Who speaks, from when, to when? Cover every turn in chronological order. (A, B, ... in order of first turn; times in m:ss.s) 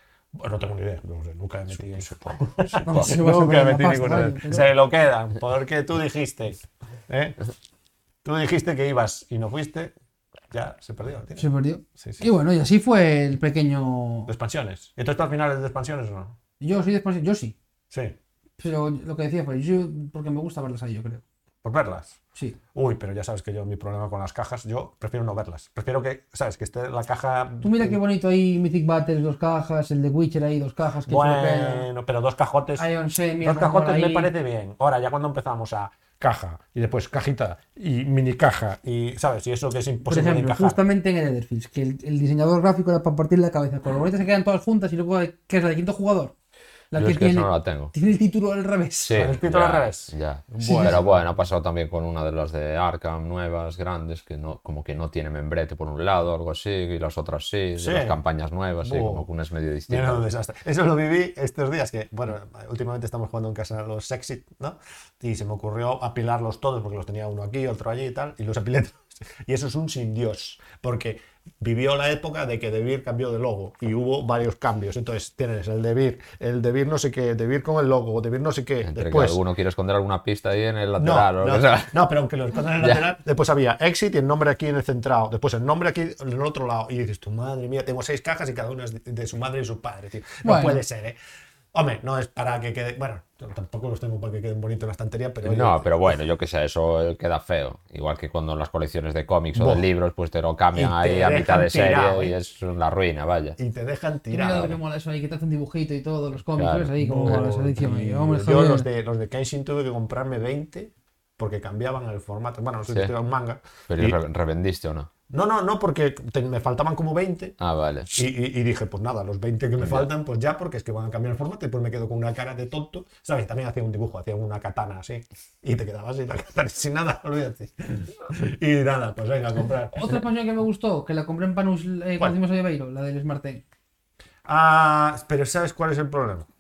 0:00.3-0:07.4 A
0:02.8-0:04.7 B
0:08.2-0:09.9 A
0:10.5-0:11.4 A
0:11.4-0:14.3 B
0:12.0-0:12.3 A
0:14.3-0:16.4 A
0:16.6-0:17.6 B
0:17.9-0:18.2 A
0:18.6-0:21.2 B
0:21.6-0:22.2 A
0:22.7-0:28.0 A
0:27.6-0:31.9 B
0:31.1-0:32.9 A
0:32.8-0:34.3 B
0:33.4-0:40.8 A
0:40.1-0:46.3 B
0:46.9-0:49.3 B
0:46.9-0:47.9 C
0:49.0-1:00.2 C
0:49.1-0:51.2 A
0:50.6-0:50.9 B
0:57.8-0:58.2 A
0:58.8-0:59.2 A
0:59.9-1:19.4 A
1:18.8-1:22.0 C
1:21.0-1:31.2 A
1:30.4-1:30.8 B
1:31.7-1:36.2 A
1:35.4-1:43.6 C
1:39.6-1:39.9 A
1:40.7-1:42.4 A
1:43.6-1:44.8 A
1:44.3-1:48.9 B
1:46.6-1:47.4 C
1:47.0-1:54.2 A
1:53.9-1:55.1 C
1:55.3-1:57.6 A
1:57.6-1:58.1 C
1:58.1-2:10.2 A
1:59.8-2:00.1 C
2:09.9-2:13.6 B
2:14.4-2:16.4 A